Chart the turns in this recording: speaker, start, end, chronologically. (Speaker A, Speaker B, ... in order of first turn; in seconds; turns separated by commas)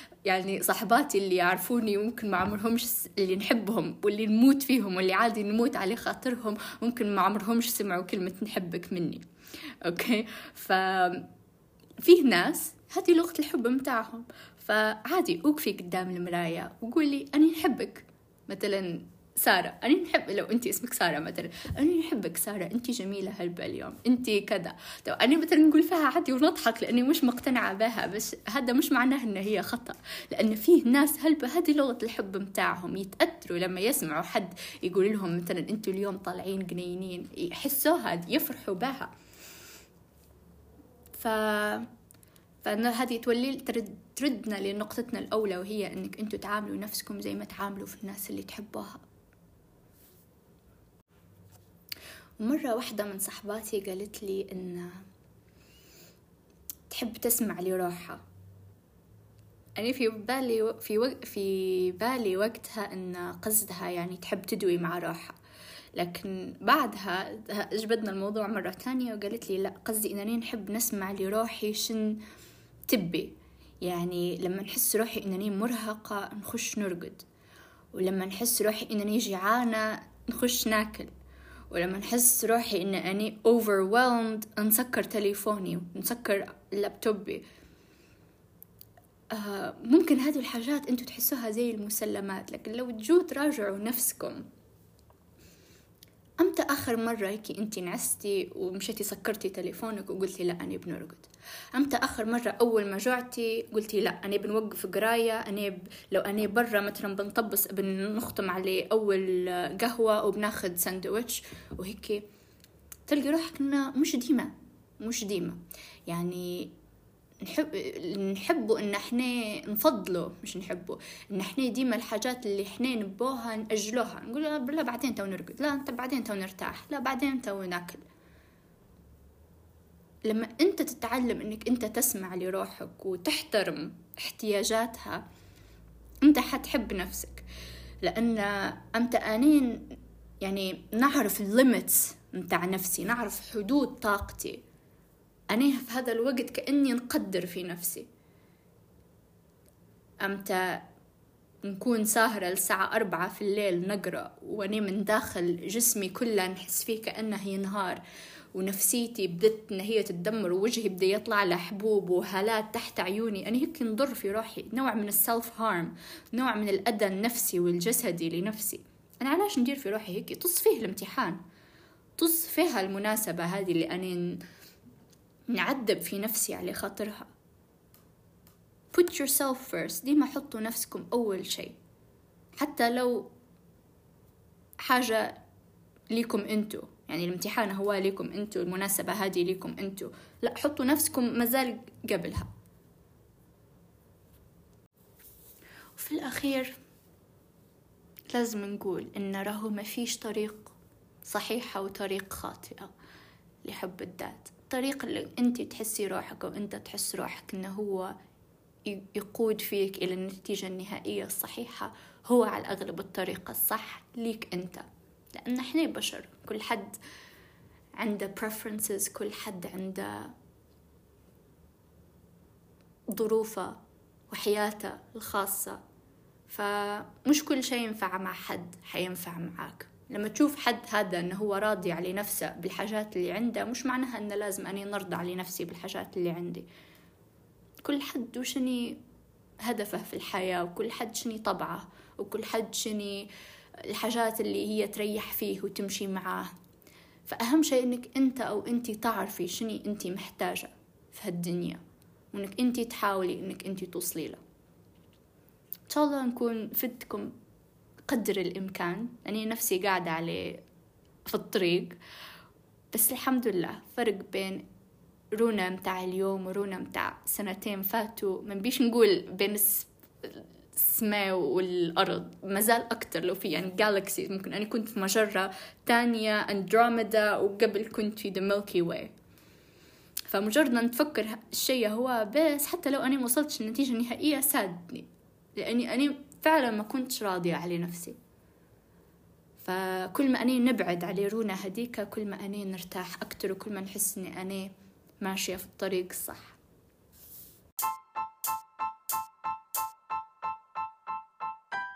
Speaker A: 0.2-9.2, Speaker A: 9.8-11.3, Speaker A: 12.0-39.1, Speaker A: 41.1-41.9, Speaker A: 42.6-49.0, Speaker A: 52.4-55.0, Speaker A: 56.9-58.2, Speaker A: 59.8-65.4, Speaker A: 66.0-72.2, Speaker A: 72.9-77.2, Speaker A: 77.9-81.1, Speaker A: 81.7-87.4, Speaker A: 89.3-94.5, Speaker A: 96.4-112.2, Speaker A: 113.1-116.7, Speaker A: 117.4-128.0, Speaker A: 130.3-135.2, Speaker A: 136.2-137.4, Speaker A: 138.0-144.6, Speaker A: 145.5-148.1, Speaker A: 150.2-150.8, Speaker A: 151.6-158.0, Speaker A: 158.6-171.4, Speaker A: 172.2-174.4, Speaker A: 175.5-177.3, Speaker A: 178.9-181.8, Speaker A: 182.6-183.3, Speaker A: 184.8-185.4, Speaker A: 186.1-192.5, Speaker A: 196.0-196.7, Speaker A: 198.3-202.9, Speaker A: 203.6-208.2, Speaker A: 208.9-217.0, Speaker A: 218.0-220.3, Speaker A: 223.1-223.8, Speaker A: 224.3-225.8, Speaker A: 226.5-236.7, Speaker A: 237.8-239.0, Speaker A: 239.6-243.3, Speaker A: 243.9-246.5, Speaker A: 247.3-251.8, Speaker A: 252.3-254.4, Speaker A: 255.9-257.3, Speaker A: 258.1-260.6, Speaker A: 261.3-262.0, Speaker A: 262.9-264.6, Speaker A: 265.3-279.1, Speaker A: 280.3-288.2, Speaker A: 289.6-296.6